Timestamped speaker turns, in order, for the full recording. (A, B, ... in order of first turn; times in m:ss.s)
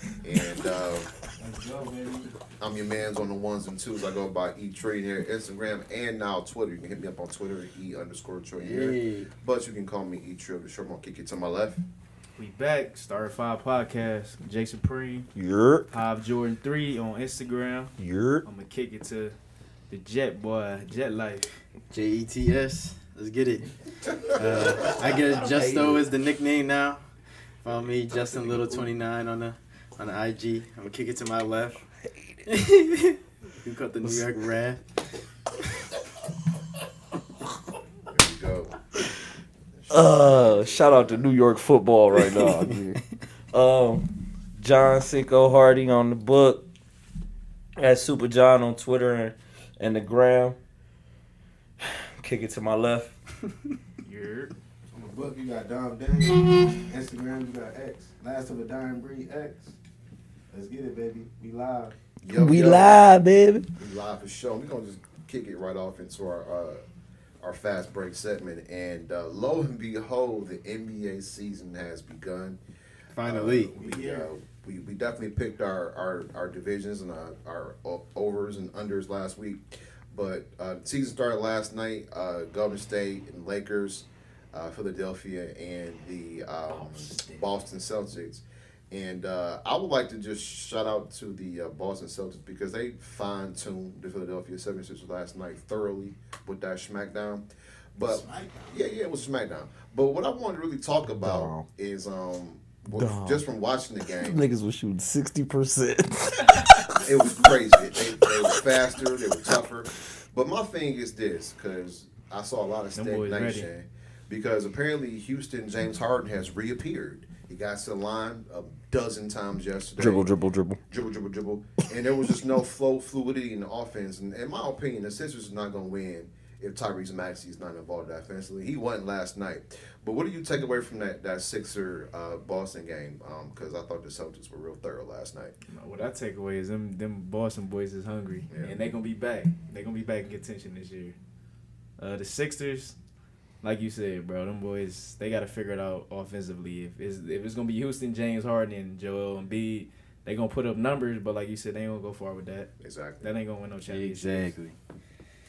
0:00.2-0:01.1 A
0:01.4-0:02.3 B
0:02.6-0:11.8 A
0:08.6-0:09.3 C
0:12.4-0:15.3 D
0:15.4-0:15.9 E
0:15.9-0:17.9 D
0:18.0-0:18.4 E
0:18.4-0:19.4 D
0:19.9-0:21.5 D
0:21.9-0:23.7 C
0:24.3-0:27.0 C
0:25.4-0:26.1 E
0:27.6-0:31.8 C
0:32.1-0:32.4 E
0:32.5-0:34.8 C
0:34.0-0:34.5 E
0:38.1-0:38.8 A
0:39.8-0:41.3 A
0:39.9-0:43.0 E
0:42.2-0:42.8 C
0:43.5-0:46.6 E
0:47.8-0:50.6 E
0:51.8-0:53.1 E
0:54.0-0:54.5 D
0:54.9-0:59.8 B
1:00.5-1:01.9 B
1:02.2-1:03.0 A
1:02.3-1:03.7 E
1:03.8-1:06.8 A
1:07.4-1:12.6 A
1:13.1-1:13.7 C
1:13.2-1:44.4 A
1:13.7-1:14.3 B
1:38.1-1:38.8 B
1:41.1-1:41.7 E
1:42.9-1:43.4 E
1:44.2-1:48.6 E
1:47.0-2:00.3 A
1:53.0-1:53.7 D
2:00.0-2:00.8 E
2:00.9-2:15.6 A
2:15.7-2:21.2 D
2:18.5-2:18.8 A
2:22.0-2:23.0 D
2:23.6-2:34.5 D
2:32.8-2:33.3 A
2:33.9-2:34.8 C